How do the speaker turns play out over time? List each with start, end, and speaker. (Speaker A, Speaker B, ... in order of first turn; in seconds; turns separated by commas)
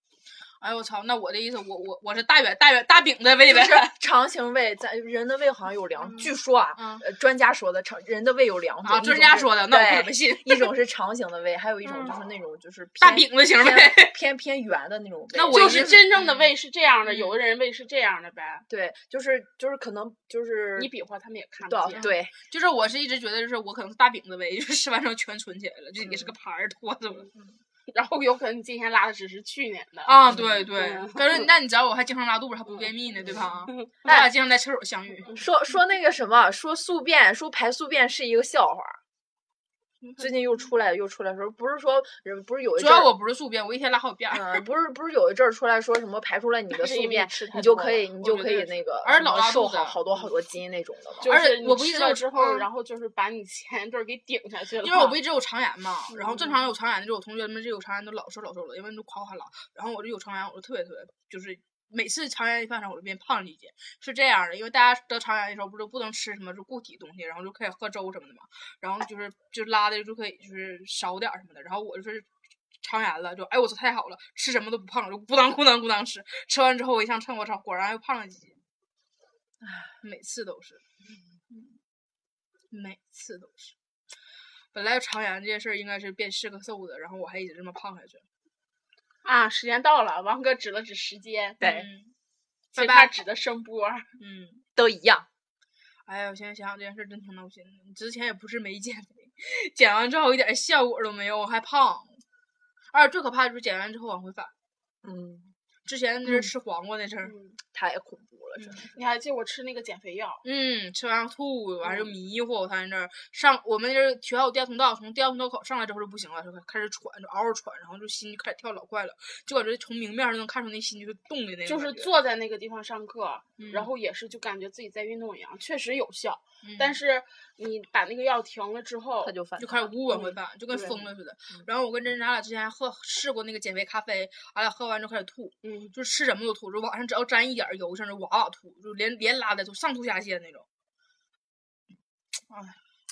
Speaker A: 0.6-3.9, Speaker B: 3.5-16.0, Speaker A: 6.0-7.0, Speaker A: 8.8-10.7, Speaker A: 11.8-12.2, Speaker A: 13.0-14.1, Speaker A: 15.3-16.5, Speaker C: 15.5-18.6, Speaker A: 17.1-17.4, Speaker B: 18.7-20.9, Speaker C: 20.8-22.1, Speaker B: 21.6-22.3, Speaker A: 21.9-27.3, Speaker B: 26.0-26.3, Speaker C: 27.9-30.1, Speaker A: 30.1-35.3, Speaker B: 30.3-30.7, Speaker C: 30.7-31.4, Speaker C: 32.7-34.1, Speaker B: 35.3-39.0, Speaker A: 40.0-40.3, Speaker B: 40.2-43.1, Speaker A: 42.8-44.6, Speaker B: 44.3-51.3, Speaker C: 46.7-48.1, Speaker A: 48.2-50.0, Speaker C: 51.2-55.1, Speaker A: 51.2-52.7, Speaker A: 54.8-72.3, Speaker C: 56.1-56.5, Speaker A: 72.8-78.6, Speaker B: 79.6-79.9, Speaker A: 80.0-80.8, Speaker A: 81.5-81.8, Speaker A: 82.7-83.7, Speaker A: 84.7-88.2, Speaker C: 89.2-91.6, Speaker B: 91.6-91.9, Speaker A: 91.6-92.1, Speaker A: 92.7-93.2, Speaker C: 92.8-94.1, Speaker A: 94.2-94.6, Speaker B: 94.8-95.3, Speaker A: 96.1-102.2, Speaker A: 102.9-104.5, Speaker B: 105.0-105.5, Speaker A: 105.9-107.3, Speaker C: 107.2-107.6, Speaker B: 107.7-108.8, Speaker A: 108.6-108.9, Speaker C: 108.9-110.4, Speaker A: 110.4-122.1, Speaker C: 121.7-129.3, Speaker A: 123.6-123.9, Speaker A: 126.6-127.0, Speaker B: 129.2-131.0, Speaker A: 129.6-140.7, Speaker C: 130.1-130.9, Speaker C: 135.6-135.9, Speaker A: 142.5-142.8